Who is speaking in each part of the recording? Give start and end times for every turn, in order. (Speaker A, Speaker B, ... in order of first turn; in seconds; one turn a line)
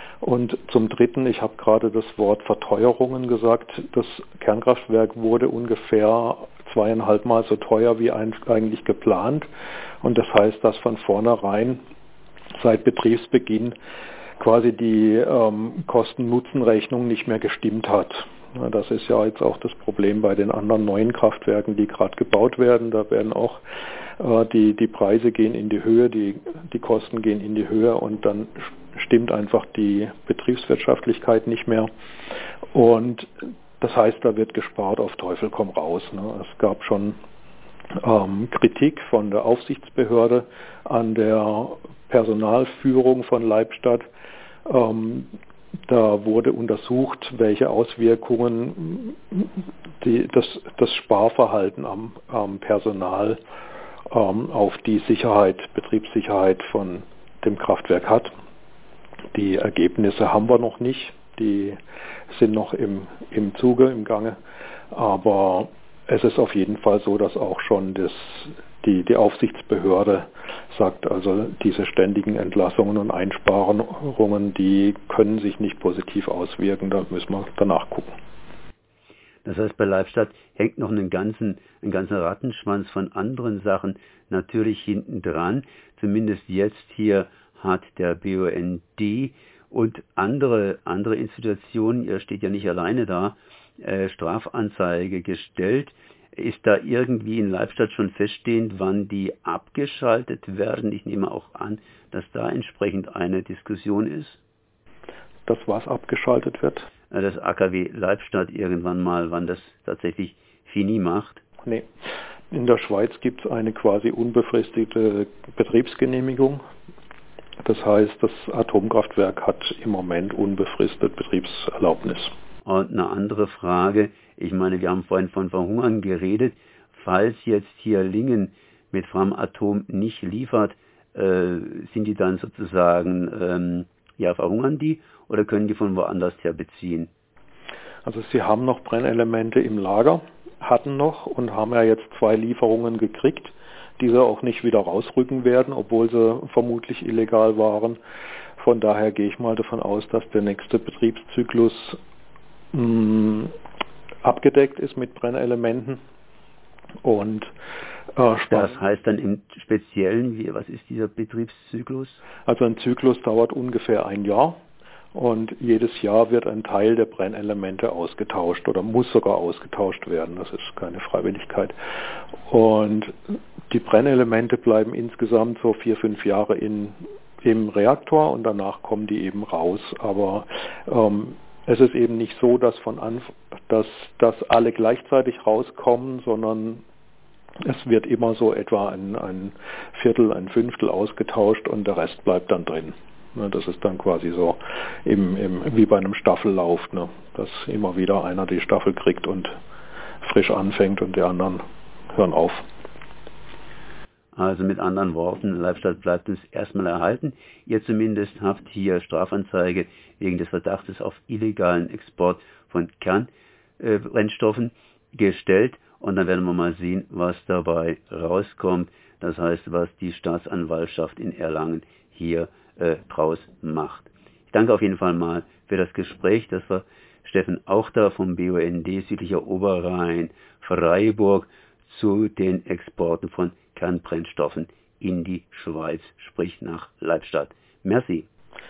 Speaker A: 0.2-9.5
Speaker A: 10.0-11.8
Speaker A: 12.6-13.8
Speaker A: 14.4-23.6
Speaker A: 24.2-31.9
Speaker A: 32.7-37.2
Speaker A: 38.0-44.1
Speaker A: 44.6-45.3
Speaker A: 45.9-53.4
Speaker A: 54.1-58.3
Speaker A: 59.3-61.8
Speaker A: 62.3-64.4
Speaker A: 64.9-78.1
Speaker B: 79.5-104.4
Speaker A: 105.5-106.9
Speaker B: 107.1-111.4
Speaker A: 112.5-116.6
Speaker A: 117.6-122.3
Speaker B: 122.7-137.1
Speaker A: 138.1-148.0
Speaker A: 148.6-152.0
Speaker A: 152.7-153.5
Speaker A: 154.2-156.0
Speaker A: 157.0-157.5
Speaker A: 158.2-158.8
Speaker B: 158.5-162.2
Speaker A: 162.5-164.6
Speaker A: 165.1-171.7
Speaker A: 172.5-173.1
Speaker A: 173.7-186.8
Speaker A: 187.6-199.6
Speaker A: 200.2-201.6
Speaker A: 202.2-202.7
Speaker B: 204.3-213.3
Speaker B: 213.8-238.3